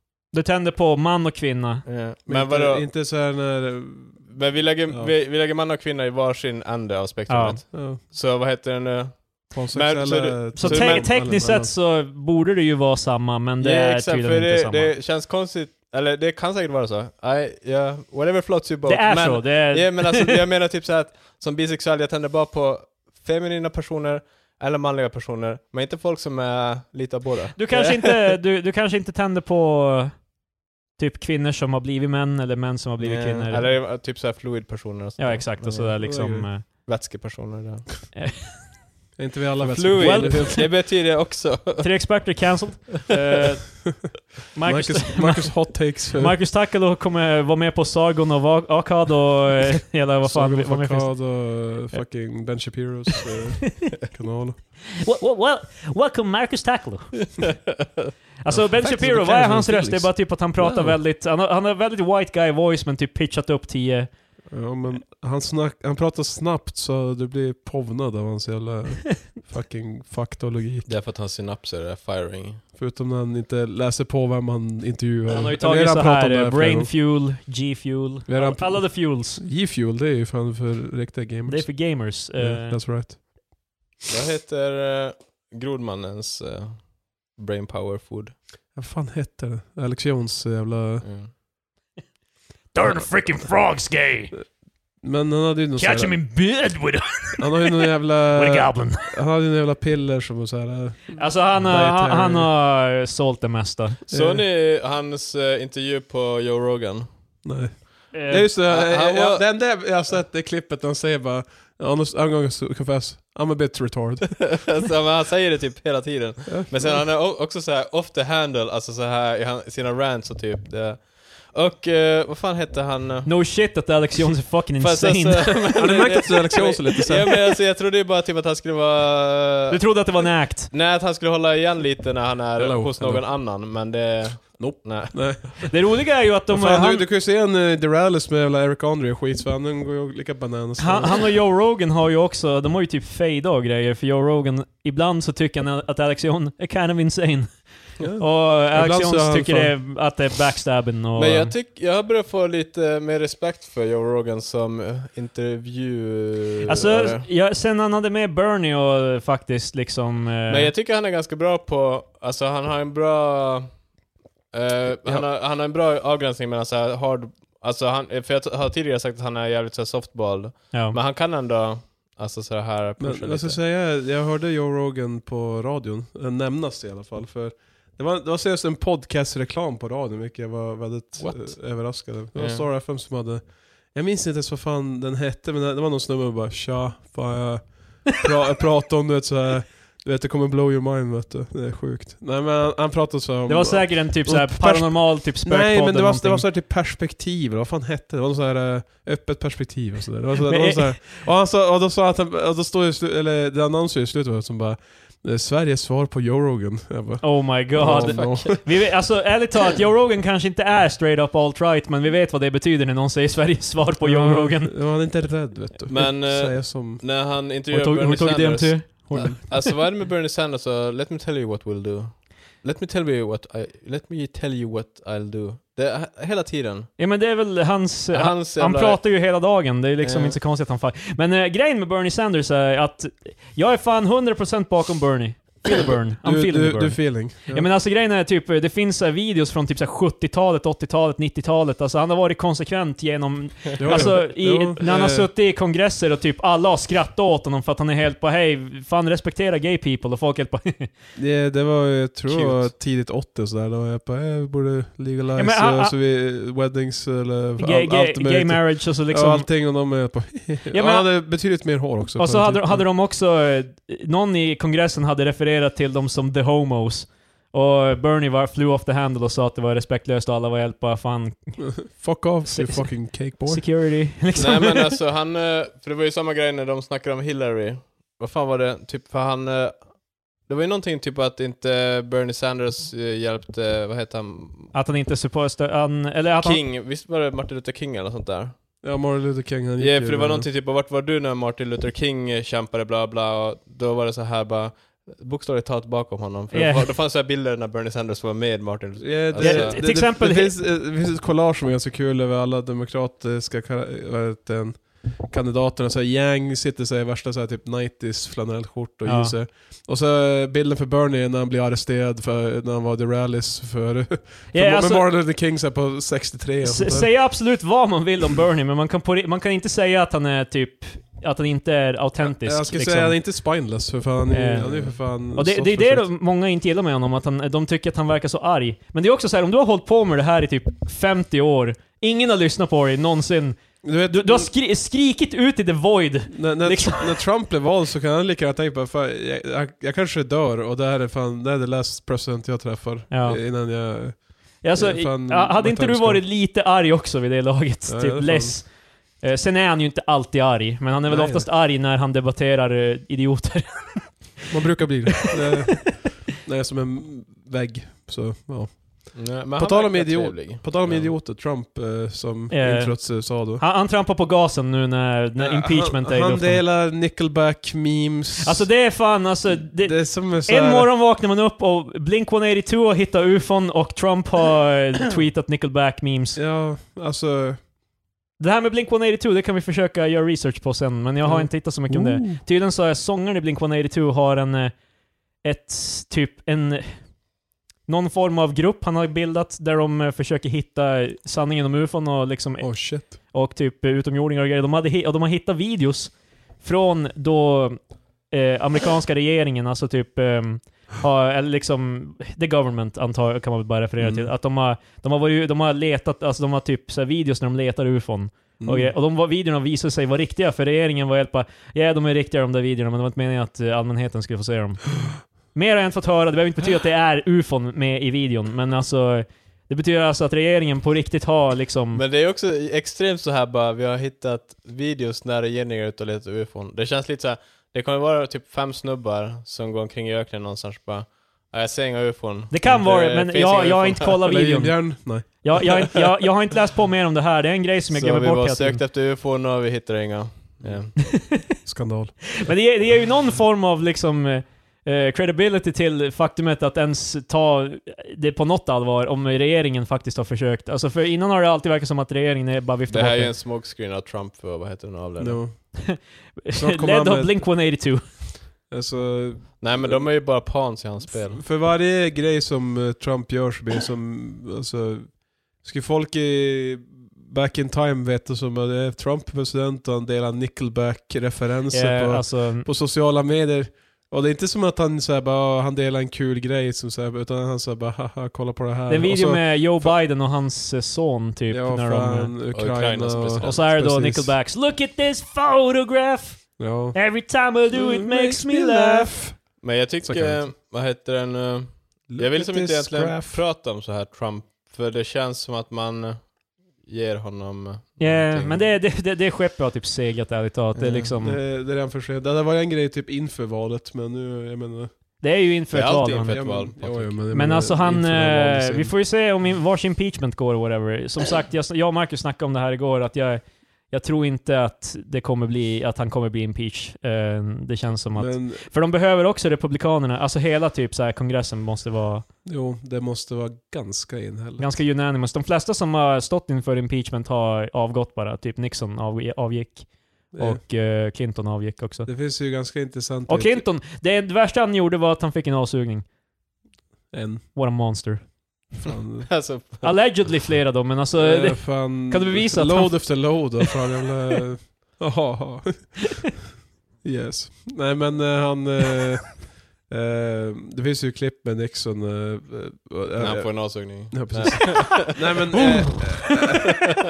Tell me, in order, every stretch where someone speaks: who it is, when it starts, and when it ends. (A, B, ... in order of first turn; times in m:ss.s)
0:00.3-0:01.9 A
0:01.8-0:02.9 B
0:02.3-0:04.3 C
0:04.3-0:11.2 B
0:04.9-0:05.1 C
0:07.3-0:07.7 A
0:07.7-0:08.0 C
0:09.5-0:11.7 C
0:10.6-0:14.9 A
0:13.6-0:28.3 B
0:18.9-0:20.4 A
0:27.6-0:33.8 A
0:33.0-0:37.9 B
0:35.2-0:36.7 A
0:36.0-0:36.5 C
0:38.2-0:38.9 A
0:39.2-0:40.7 C
0:39.6-0:42.3 B
0:40.0-0:41.0 A
0:41.8-0:52.0 A
0:44.6-0:46.4 C
0:50.2-0:55.0 C
0:55.0-0:57.6 A
0:57.7-0:58.1 B
0:58.4-1:04.1 A
0:58.5-1:01.0 C
1:04.5-1:10.9 C
1:10.9-1:12.6 B
1:12.8-1:16.9 C
1:15.3-1:19.4 A
1:18.3-1:23.2 C
1:21.5-1:22.8 A
1:24.1-1:28.4 B
1:28.8-1:31.1 C
1:31.0-1:31.3 B
1:32.7-1:34.4 A
1:35.0-1:36.2 C
1:35.8-1:39.1 A
1:37.4-1:42.5 C
1:41.2-1:44.0 A
1:44.1-1:44.4 C
1:44.1-1:47.1 B
1:47.4-1:54.7 C
1:48.1-1:48.5 A
1:48.6-1:49.5 B
1:54.4-2:03.5 B
1:56.5-1:57.0 C
2:03.3-2:05.8 A
2:04.8-2:10.0 B
2:05.7-2:07.4 C
2:09.7-2:10.7 A
2:10.7-2:15.5 B
2:12.6-2:13.4 C
2:14.6-2:21.4 C
2:15.7-2:17.1 A
2:20.8-2:31.6 A
2:28.0-2:29.8 C
2:31.2-2:37.3 B
2:36.6-2:40.7 A
2:40.5-2:43.9 B
2:44.5-2:53.6 B
2:50.7-2:51.0 A
2:53.0-3:28.8 C
3:01.2-3:02.6 B
3:13.5-3:16.4 A
3:20.4-3:21.2 A
3:27.2-3:34.8 A
3:27.8-3:28.6 B
3:34.0-3:37.0 C
3:35.9-3:46.9 B
3:37.7-3:39.8 A
3:47.0-4:10.9 A
3:48.1-3:49.1 B
3:50.0-3:50.4 B
3:56.2-3:57.7 C
4:03.8-4:05.3 C
4:11.2-4:22.9 C
4:12.3-4:12.7 B
4:15.4-4:15.9 A
4:17.6-4:19.5 A
4:20.7-4:21.1 A
4:22.2-4:31.9 A
4:31.6-4:33.6 C
4:32.5-4:35.0 A
4:34.4-4:44.7 B
4:44.7-4:46.6 A
4:46.4-4:48.6 B
4:48.8-4:50.5 C
4:49.8-4:59.8 B
4:56.5-4:56.9 A
4:59.0-5:17.2 C
4:59.4-5:00.5 A
5:09.0-5:09.4 A
5:14.5-5:15.0 A
5:16.6-5:23.2 A
5:22.3-5:26.1 C
5:24.3-5:37.2 A
5:33.8-5:34.5 C
5:36.3-5:46.2 C
5:43.1-5:43.5 A
5:44.6-5:54.4 A
5:47.9-5:48.6 C
5:51.1-5:51.5 C
5:54.5-6:03.6 C
5:55.7-5:56.0 A
5:59.1-6:01.1 B
6:02.5-6:06.6 A
6:05.4-6:08.7 C
6:08.4-6:16.4 A
6:09.6-6:10.9 C
6:16.4-6:17.6 C
6:18.4-6:24.8 A
6:21.2-6:22.4 C
6:25.4-6:27.0 A
6:27.9-7:02.0 A
6:32.6-6:33.2 C
6:44.0-6:44.3 C
6:48.6-6:48.9 C
7:01.9-7:14.2 B
7:12.5-7:18.8 A
7:14.2-7:15.9 C
7:17.9-7:21.0 B
7:21.1-7:21.6 A
7:21.6-7:22.4 C
7:22.4-7:33.3 A
7:32.9-7:35.4 B
7:35.2-7:37.5 C
7:35.8-7:38.2 A
7:38.7-7:40.1 C
7:39.6-7:41.4 B
7:41.1-8:00.0 C
7:51.7-7:52.7 A
7:58.9-8:02.4 A
8:01.5-8:04.4 C
8:02.5-8:03.6 B
8:03.4-8:09.2 A
8:06.6-8:10.5 C
8:09.6-8:18.7 B
8:12.1-8:13.4 C
8:18.0-8:21.4 A
8:20.8-8:21.1 B
8:20.8-8:24.9 C
8:25.2-8:26.6 A
8:25.7-8:27.2 B
8:25.9-8:28.9 C
8:27.3-8:42.3 A
8:38.2-8:38.7 C
8:42.4-8:44.7 C
8:44.6-8:52.1 A
8:50.3-8:50.6 C
8:52.1-8:53.6 C
8:53.3-8:56.1 A
8:57.1-8:57.5 C
8:57.6-8:58.8 A
8:58.8-8:59.4 C
8:59.3-9:00.0 B
8:59.8-9:03.6 A
9:01.1-9:06.3 C
9:07.0-9:16.8 C
9:13.2-9:16.4 B
9:15.6-9:16.4 A